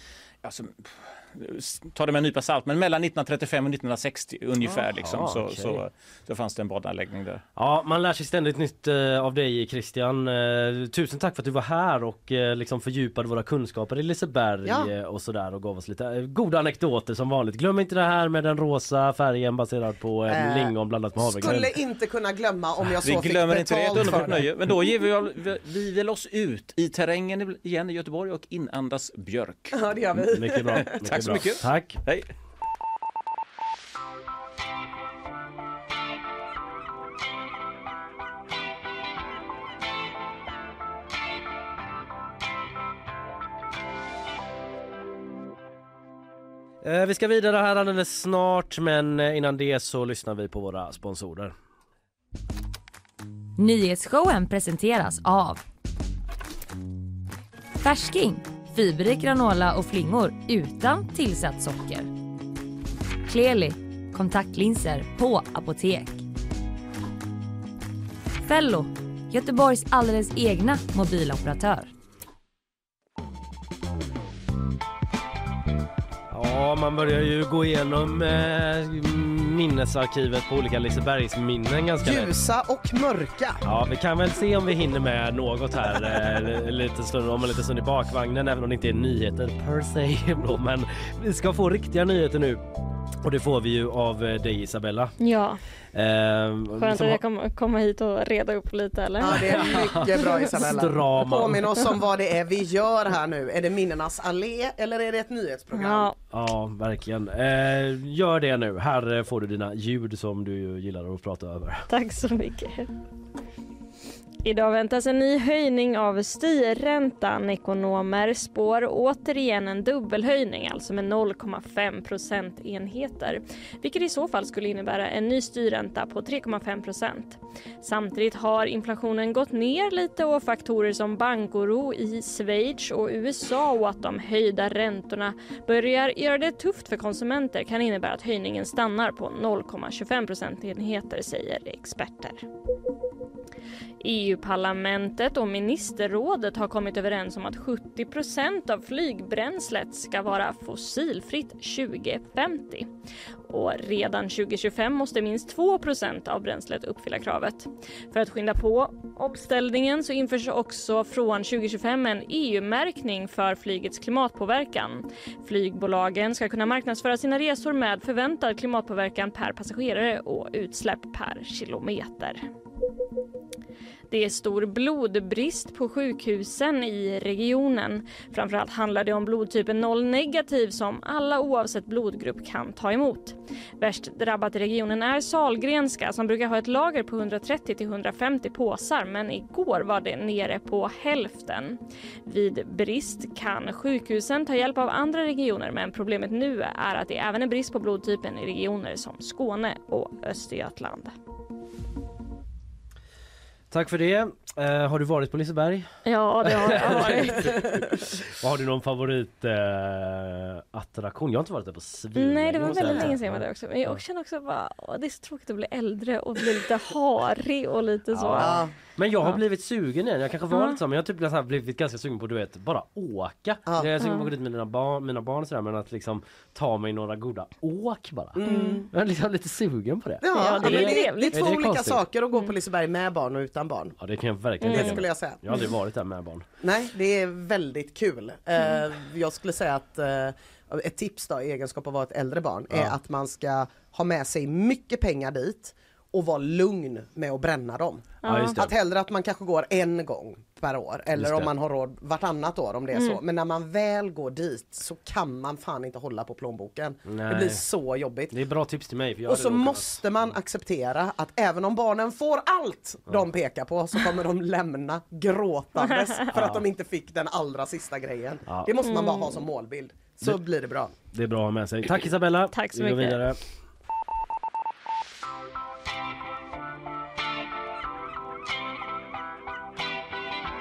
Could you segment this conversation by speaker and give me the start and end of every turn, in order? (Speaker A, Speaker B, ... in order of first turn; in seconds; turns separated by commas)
Speaker A: 0.4-7.4, Speaker B: 4.6-5.8, Speaker B: 7.6-21.7, Speaker C: 14.7-14.9, Speaker C: 20.3-24.4, Speaker A: 23.0-29.8, Speaker B: 24.0-24.4, Speaker C: 29.7-31.4, Speaker B: 30.1-32.0, Speaker A: 31.0-32.3, Speaker B: 46.8-51.5, Speaker D: 53.6-55.6, Speaker D: 57.8-62.1, Speaker D: 63.3-66.2, Speaker D: 68.5-71.9, Speaker B: 76.3-82.3, Speaker C: 82.0-83.6, Speaker B: 83.7-92.6, Speaker B: 93.2-95.1, Speaker E: 95.2-95.6, Speaker B: 95.9-97.2, Speaker E: 96.8-100.5, Speaker C: 99.2-106.1, Speaker B: 99.4-101.6, Speaker E: 105.7-106.2, Speaker B: 106.3-111.9, Speaker E: 111.9-112.9, Speaker E: 114.4-142.4, Speaker E: 144.0-152.9, Speaker E: 153.5-172.4, Speaker E: 174.1-201.1, Speaker B: 203.7-205.9, Speaker E: 206.1-207.6, Speaker B: 206.4-207.7, Speaker B: 208.3-214.0, Speaker E: 212.2-218.7, Speaker C: 212.7-213.1, Speaker B: 218.1-232.0, Speaker C: 218.4-218.7, Speaker E: 220.5-220.8, Speaker E: 224.0-224.3, Speaker C: 228.4-228.9, Speaker E: 228.5-228.9, Speaker C: 230.2-234.0, Speaker E: 230.3-231.6, Speaker B: 234.0-236.5, Speaker E: 234.6-235.0, Speaker C: 234.7-235.7, Speaker C: 236.6-258.3, Speaker E: 248.2-248.6, Speaker B: 248.3-248.7, Speaker B: 251.2-251.5, Speaker E: 252.9-253.2, Speaker B: 257.1-257.6, Speaker B: 258.3-259.9, Speaker C: 259.3-270.9, Speaker E: 265.8-266.2, Speaker B: 266.3-266.6, Speaker B: 268.5-268.7, Speaker E: 268.8-269.4, Speaker B: 271.1-273.4, Speaker E: 272.5-273.3